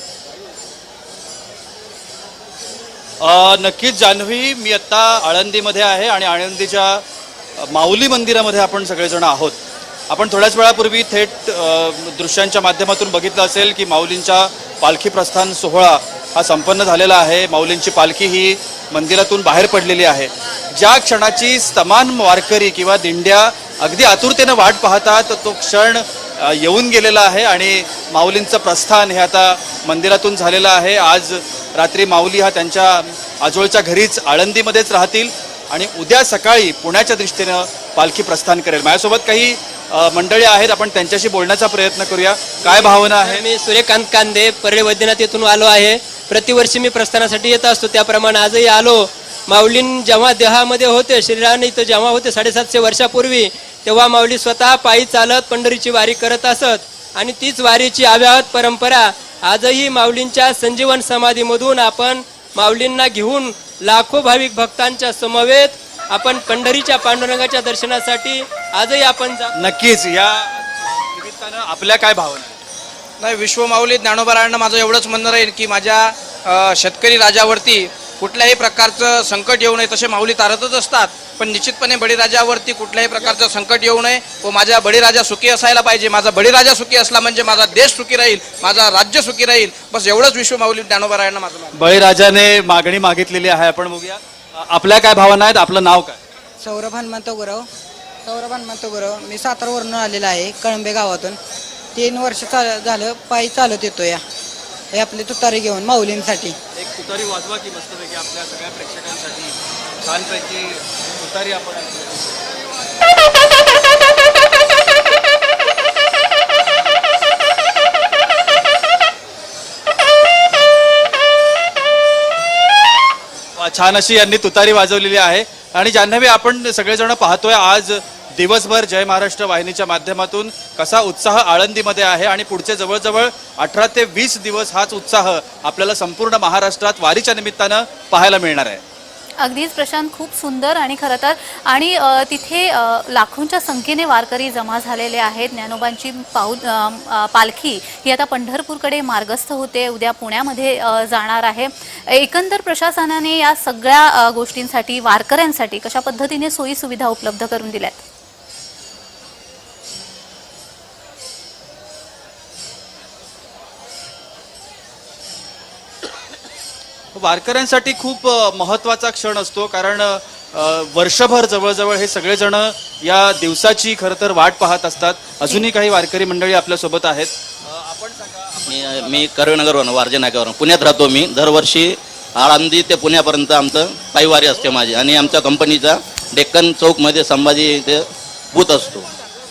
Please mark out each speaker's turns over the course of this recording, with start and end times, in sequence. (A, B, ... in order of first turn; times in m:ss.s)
0:03.2-0:07.0 A
0:07.6-0:43.4 A
0:42.6-1:09.5 B
1:09.5-1:12.6 A
1:13.2-1:31.7 C
1:31.7-1:36.2 A
1:36.6-1:37.7 D
1:38.2-1:41.4 D
1:41.9-1:44.2 D
1:44.9-1:46.6 D
1:46.8-1:52.3 A
2:03.6-2:18.8 A
2:19.4-2:38.0 E
2:47.1-2:59.3 A
2:58.7-3:09.1 F